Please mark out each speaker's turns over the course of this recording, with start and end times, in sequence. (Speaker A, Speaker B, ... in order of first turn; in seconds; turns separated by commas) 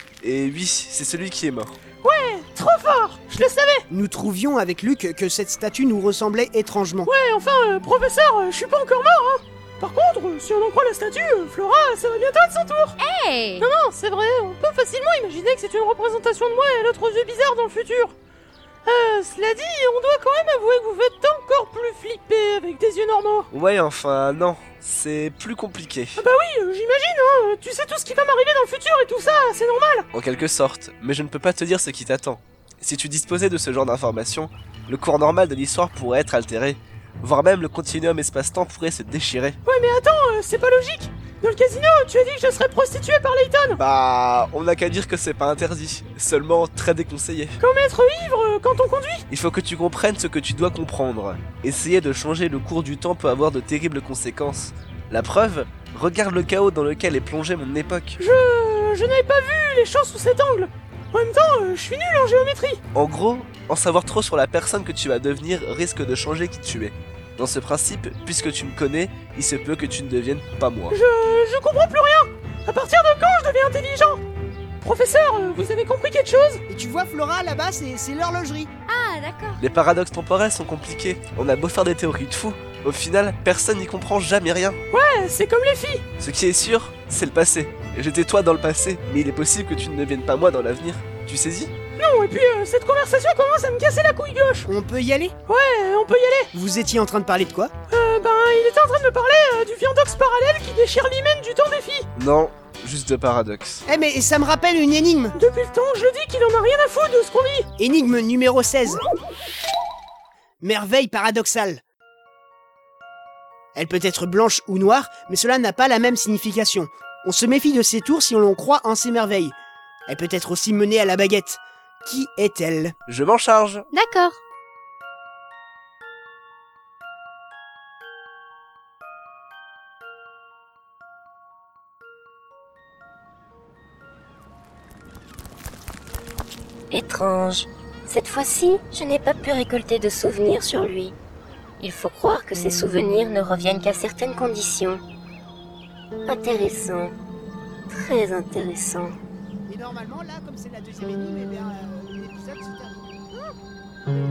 Speaker A: 0.2-1.8, Speaker B: 2.0-3.9, Speaker C: 3.9-7.1, Speaker B: 7.0-12.9, Speaker D: 13.0-13.7, Speaker B: 13.6-18.1, Speaker B: 18.9-23.5, Speaker A: 23.5-26.2, Speaker B: 26.2-30.1, Speaker A: 30.1-39.6, Speaker B: 39.6-43.8, Speaker A: 43.8-47.6, Speaker B: 47.6-49.2, Speaker A: 49.3-58.2, Speaker B: 58.2-62.8, Speaker A: 62.9-71.0, Speaker B: 70.9-74.2, Speaker B: 74.8-76.6, Speaker C: 76.7-78.7, Speaker D: 78.9-79.6, Speaker A: 79.6-84.8, Speaker B: 84.9-86.0, Speaker A: 86.2-91.7, Speaker B: 92.0-94.7, Speaker C: 94.7-95.3, Speaker B: 95.5-96.5, Speaker C: 96.5-97.7, Speaker B: 97.9-102.1, Speaker A: 102.2-103.8, Speaker C: 103.9-105.4, Speaker B: 105.3-107.7, Speaker C: 107.8-109.0, Speaker C: 110.6-111.8, Speaker C: 113.8-119.6, Speaker C: 120.1-123.0, Speaker A: 123.1-123.9, Speaker D: 123.9-124.4, Speaker E: 136.9-141.2, Speaker E: 141.8-145.0, Speaker E: 146.3-147.1, Speaker E: 147.9-149.2, Speaker C: 149.7-153.1